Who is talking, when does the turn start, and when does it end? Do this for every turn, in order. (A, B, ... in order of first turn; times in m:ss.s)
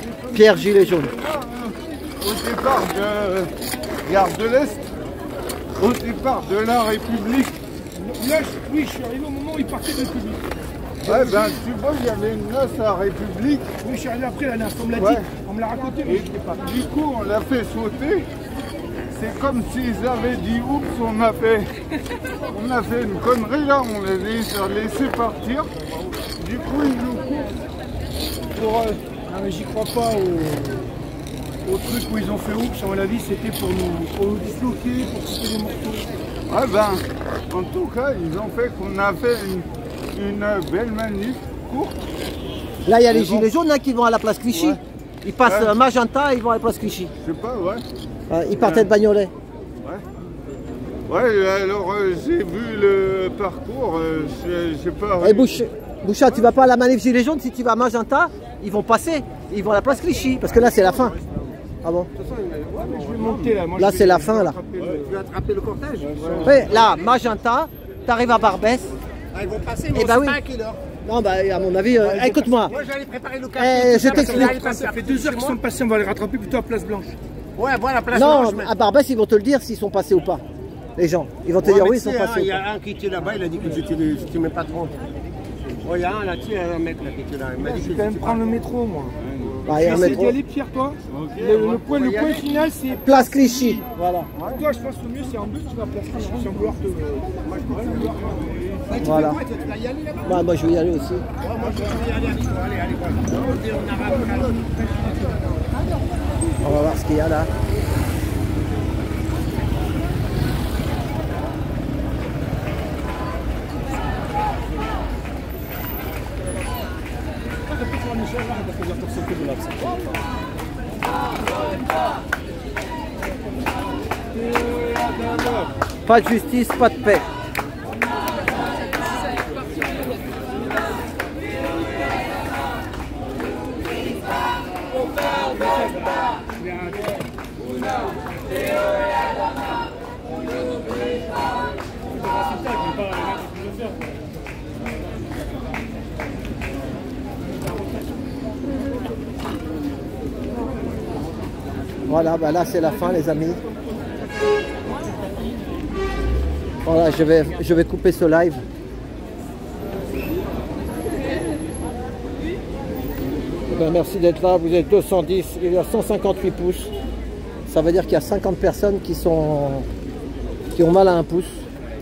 0:00.2-0:03.5 A
0:00.3-0:01.1 B
0:04.0-0:04.9 A
0:05.8-0:07.6 A
0:08.0-0:10.5 C
0:11.0-0:13.7 A
0:11.1-0:11.3 C
0:13.8-0:16.6 C
0:15.0-0:15.2 A
0:16.0-0:18.3 A
0:19.1-0:21.7 A
0:22.5-0:25.7 A
0:26.4-0:27.5 A
0:28.5-0:30.9 C
0:31.6-0:36.1 C
0:36.5-0:42.0 A
0:42.8-0:47.1 B
0:43.1-0:43.5 A
0:44.5-0:44.8 A
0:45.4-0:45.7 A
0:47.2-0:47.8 A
0:48.3-0:49.3 B
0:48.6-0:48.9 A
0:51.1-0:55.6 A
0:55.2-1:01.2 B
1:01.8-1:02.1 B
1:02.2-1:03.4 D
1:02.7-1:05.1 C
1:03.8-1:04.6 B
1:05.0-1:06.3 D
1:06.1-1:06.6 C
1:06.4-1:08.9 B
1:09.3-1:10.8 D
1:09.9-1:10.4 B
1:11.0-1:12.7 B
1:12.0-1:12.6 C
1:12.7-1:15.6 D
1:13.6-1:14.6 B
1:13.9-1:17.1 C
1:17.6-1:18.7 D
1:18.1-1:20.4 B
1:21.0-1:22.6 B
1:21.6-1:25.0 D
1:25.8-1:28.5 D
1:27.6-1:29.2 C
1:29.6-1:30.3 B
1:29.7-1:33.8 C
1:31.1-1:31.8 A
1:32.0-1:32.4 D
1:33.0-1:34.3 B
1:34.4-1:34.6 A
1:34.4-1:38.4 C
1:38.9-1:40.3 D
1:39.0-1:39.4 B
1:40.2-1:41.2 B
1:41.4-1:45.1 D
1:46.6-1:47.5 B
1:57.7-1:59.9 C
2:06.0-2:07.2 B
2:32.1-2:33.6 B
2:36.8-2:38.6 B
2:43.7-2:46.9 B
2:47.7-2:49.9 B
2:50.7-2:51.6 B